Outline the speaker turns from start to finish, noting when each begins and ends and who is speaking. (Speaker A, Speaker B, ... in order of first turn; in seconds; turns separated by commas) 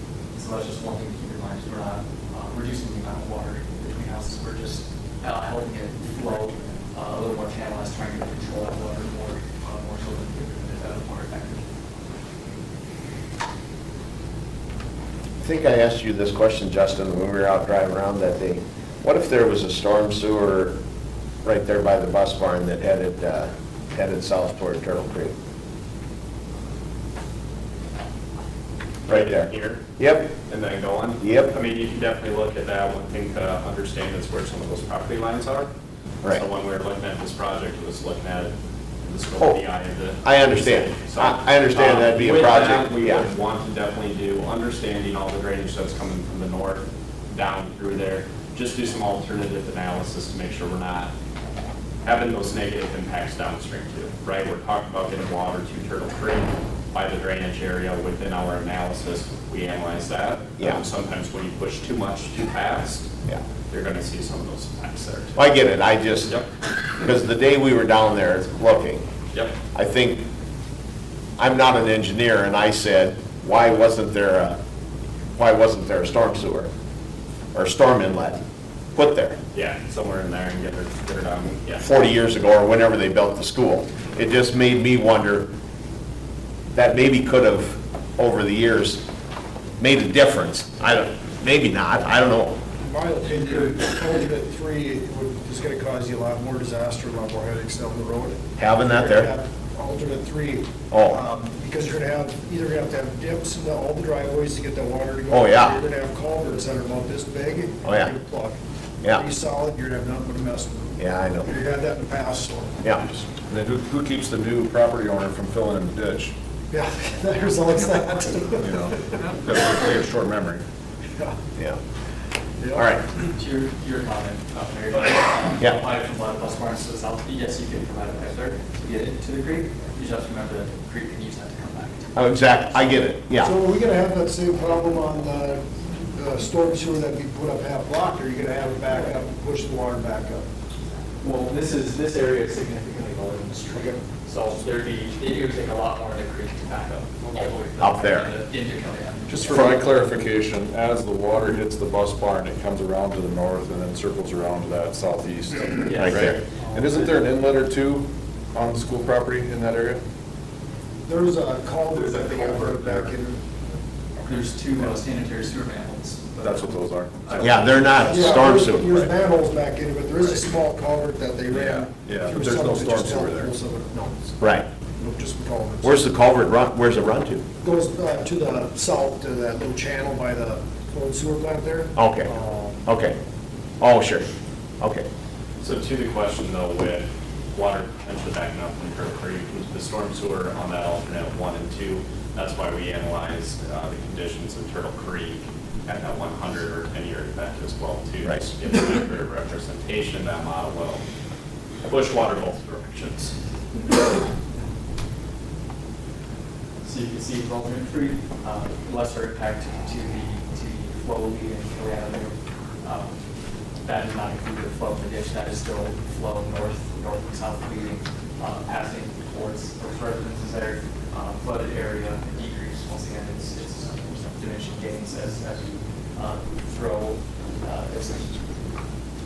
Speaker A: 0.3-11.7, Speaker B: 15.4-20.8, Speaker B: 21.4-25.3, Speaker C: 29.1-29.9, Speaker B: 29.1-30.3, Speaker C: 30.5-35.7, Speaker B: 31.2-31.6, Speaker C: 36.3-51.1, Speaker B: 40.2-43.3, Speaker C: 52.0-63.1, Speaker C: 63.7-65.5, Speaker B: 65.4-66.4, Speaker B: 67.0-69.0, Speaker B: 69.7-70.2, Speaker B: 71.4-74.6, Speaker B: 75.4-76.7, Speaker B: 77.5-78.4, Speaker B: 78.9-79.4, Speaker C: 79.5-81.9, Speaker B: 81.8-85.5, Speaker B: 86.7-89.0, Speaker B: 89.8-92.6, Speaker D: 92.8-112.8, Speaker A: 93.3-93.8, Speaker B: 98.6-99.3, Speaker B: 100.9-101.2, Speaker B: 105.3-105.8, Speaker B: 107.8-108.1, Speaker B: 111.0-111.5, Speaker E: 113.4-116.3, Speaker D: 116.7-119.4, Speaker E: 118.6-120.6, Speaker D: 122.6-122.9, Speaker B: 122.8-123.0, Speaker A: 123.4-133.0, Speaker B: 132.2-133.5, Speaker D: 133.4-140.5, Speaker A: 141.2-149.8, Speaker D: 143.7-144.0, Speaker B: 147.8-148.3, Speaker E: 149.3-160.0, Speaker A: 155.8-157.2, Speaker B: 156.0-156.4, Speaker D: 161.1-163.4, Speaker E: 162.0-163.1, Speaker A: 164.2-167.8, Speaker E: 166.4-167.7, Speaker B: 167.4-169.1, Speaker D: 168.0-174.3, Speaker E: 171.5-173.6, Speaker B: 174.4-174.7, Speaker D: 175.0-176.1, Speaker B: 175.8-177.4, Speaker D: 177.6-182.7, Speaker B: 182.0-183.2, Speaker B: 183.8-184.3, Speaker B: 184.8-185.1, Speaker C: 185.6-201.0, Speaker C: 201.9-203.3, Speaker A: 206.8-213.2, Speaker A: 213.8-228.6